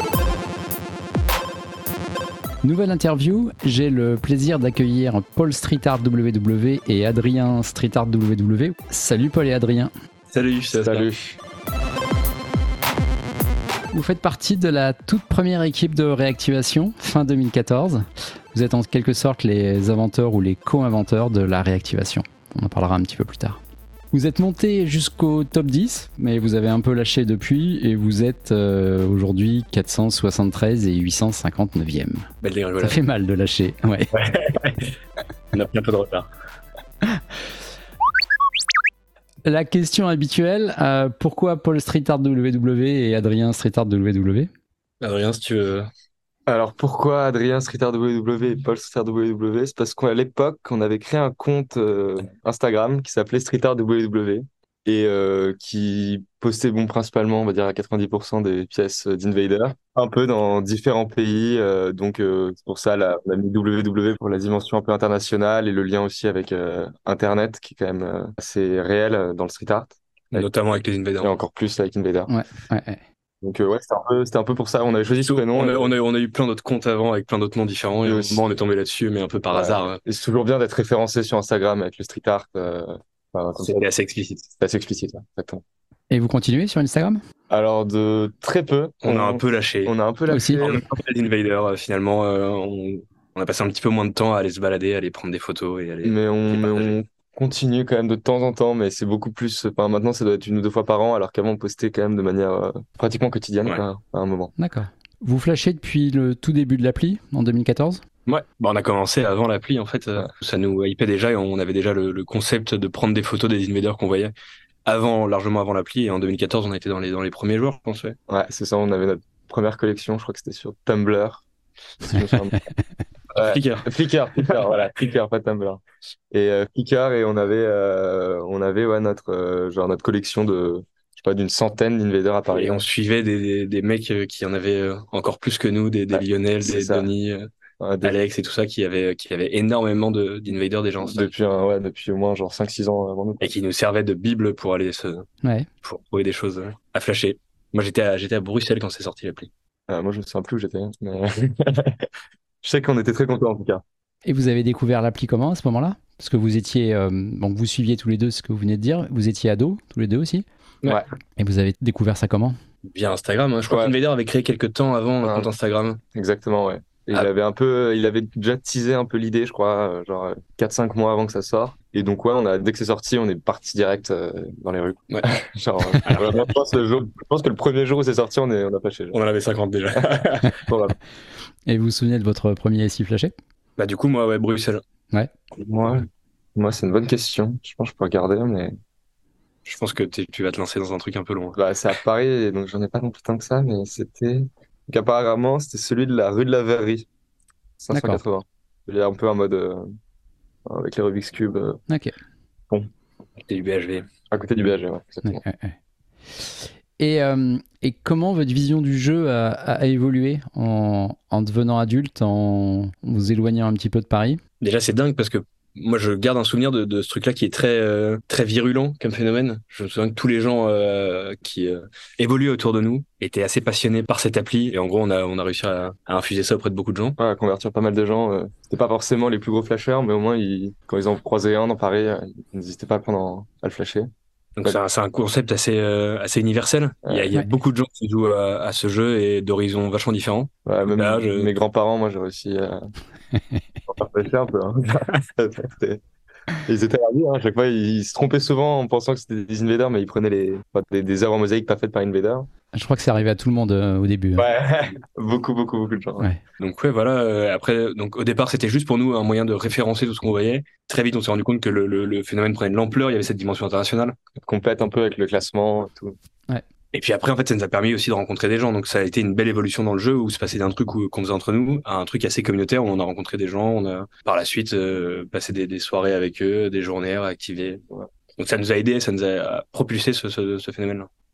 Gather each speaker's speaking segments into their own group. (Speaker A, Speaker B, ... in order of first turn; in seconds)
Speaker A: 2.6-9.9, 13.9-23.6, 24.1-32.3, 32.8-34.1, 39.5-44.5, 72.3-73.0, 86.1-87.2, 90.3-90.6, 104.6-108.0, 154.2-160.4, 161.4-162.6, 181.7-183.3, 197.9-198.2, 201.9-202.1, 205.2-205.8, 206.4-214.4, 252.7-254.5
Speaker B: 10.3-11.1, 32.4-33.0, 34.1-35.0, 35.5-36.3, 45.0-45.9, 70.3-71.3, 75.2-80.0, 83.6-84.5, 89.0-89.9, 90.6-96.9, 108.3-114.3, 114.9-118.2, 123.3-124.9, 132.5-137.5, 138.0-141.3, 143.4-145.3, 145.8-149.5, 162.9-166.0, 175.9-176.5, 179.1-180.6, 183.8-184.8, 189.7-191.6, 203.5-204.1, 214.6-227.2, 234.6-241.5, 256.6-264.2, 266.9-277.8, 278.4-281.1
Speaker C: 10.8-11.4, 46.5-70.5, 71.2-72.3, 73.4-75.9, 78.0-78.4, 79.5-83.8, 84.6-85.6, 87.5-90.8, 96.0-104.5, 118.3-121.5, 122.0-122.6, 123.3-125.8, 126.3-132.8, 136.1-137.1, 137.8-138.2, 141.0-143.4, 149.9-152.1, 152.6-153.8, 163.7-163.9, 165.2-165.5, 166.1-179.2, 180.0-180.9, 185.6-188.8, 191.6-197.1, 197.8-199.9, 200.7-201.8, 204.3-205.4, 227.2-234.1, 240.7-242.9, 243.9-246.0, 246.7-252.5, 254.4-256.3, 264.4-266.2